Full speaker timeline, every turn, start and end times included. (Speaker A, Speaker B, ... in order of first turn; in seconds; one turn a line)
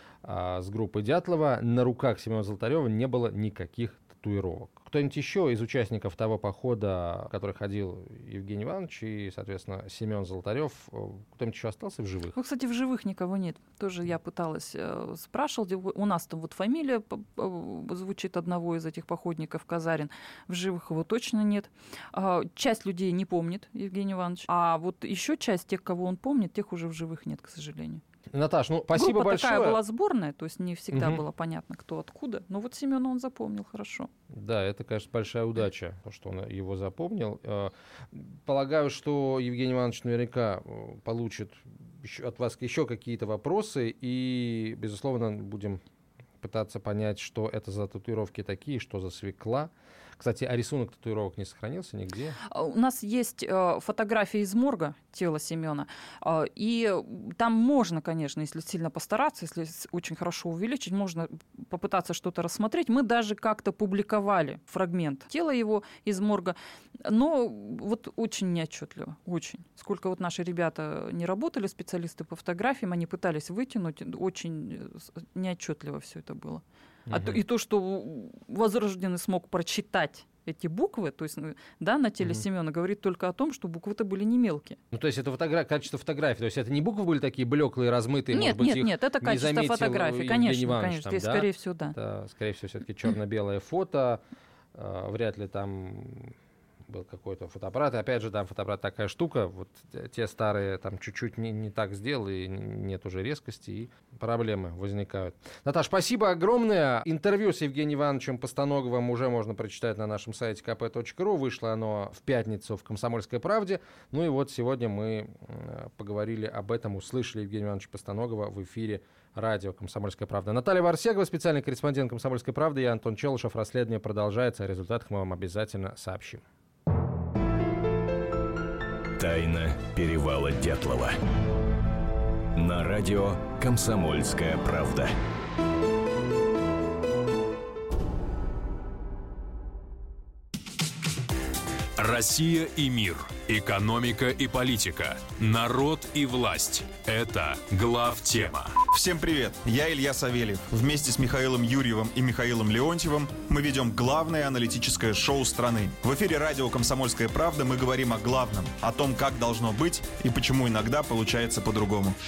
Speaker A: 0.2-12.4
Speaker B: 12.3-28.0
Speaker A: 28.3-29.8
Speaker B: 28.9-34.1
Speaker A: 30.9-31.2
Speaker A: 34.3-45.8
Speaker A: 46.4-52.4
Speaker B: 52.5-84.8
Speaker A: 77.1-77.4
Speaker A: 84.9-94.2
Speaker B: 88.3-92.0
Speaker A: 94.8-96.3
Speaker A: 96.9-126.4
Speaker C: 129.2-131.2
Speaker C: 132.6-135.2
Speaker D: 142.0-148.8
Speaker E: 148.8-162.2